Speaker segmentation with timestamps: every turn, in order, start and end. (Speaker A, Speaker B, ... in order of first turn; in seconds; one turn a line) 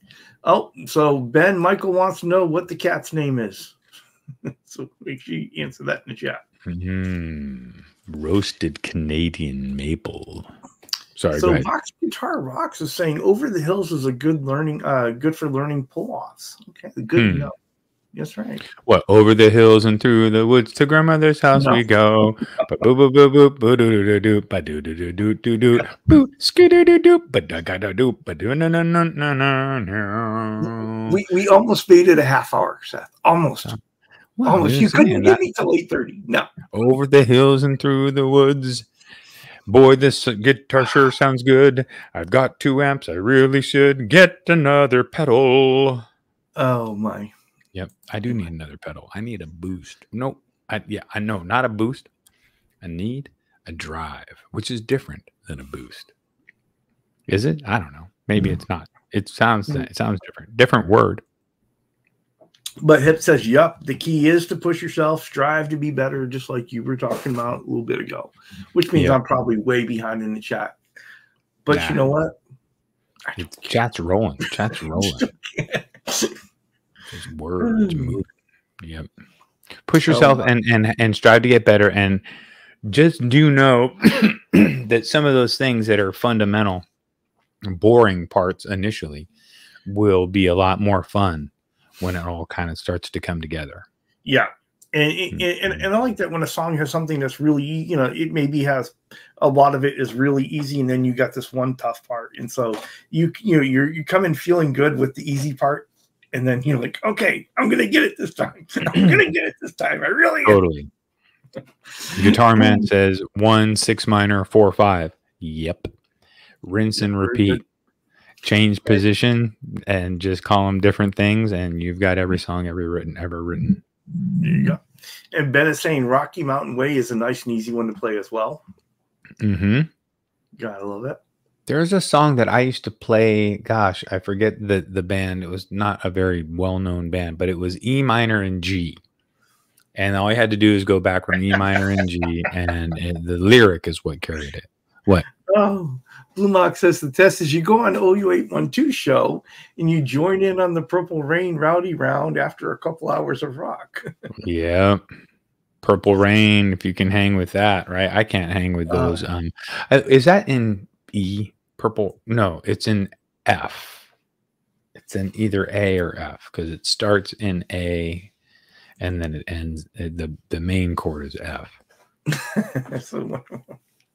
Speaker A: 0.4-3.8
Speaker A: 4.4-6.4
Speaker B: 6.7-10.5
Speaker B: 11.2-11.7
Speaker A: 11.3-17.5
Speaker B: 17.1-17.5
Speaker A: 18.1-18.6
Speaker B: 18.7-31.2
Speaker A: 21.5-21.8
Speaker A: 30.6-33.8
Speaker B: 34.4-35.4
Speaker A: 34.4-36.5
Speaker B: 36.7-38.9
Speaker B: 39.7-46.0
Speaker A: 46.5-47.3
Speaker B: 47.7-52.1
Speaker B: 52.8-56.1
Speaker B: 57.3-61.2
Speaker A: 62.8-70.8
Speaker B: 68.9-69.2
Speaker A: 71.6-72.3
Speaker B: 71.7-72.0
Speaker B: 73.3-75.3
Speaker A: 74.9-76.3
Speaker B: 77.1-78.3
Speaker A: 77.6-78.2
Speaker B: 78.8-79.1
Speaker B: 79.9-82.2
Speaker A: 80.1-80.5
Speaker B: 82.8-86.8
Speaker B: 87.6-89.3
Speaker B: 89.8-93.8
Speaker A: 94.2-110.6
Speaker B: 110.4-110.9
Speaker A: 112.0-112.8
Speaker B: 112.1-115.9
Speaker B: 116.6-117.6
Speaker A: 117.0-117.6
Speaker B: 118.4-123.8
Speaker A: 124.4-124.8
Speaker A: 125.3-128.6
Speaker B: 129.4-129.9
Speaker A: 130.6-131.2
Speaker B: 131.7-139.0
Speaker B: 139.9-145.3
Speaker A: 145.4-154.1
Speaker B: 154.4-155.0
Speaker B: 155.8-164.0
Speaker A: 158.9-159.2
Speaker B: 164.9-168.3
Speaker B: 169.0-171.7
Speaker A: 172.3-173.7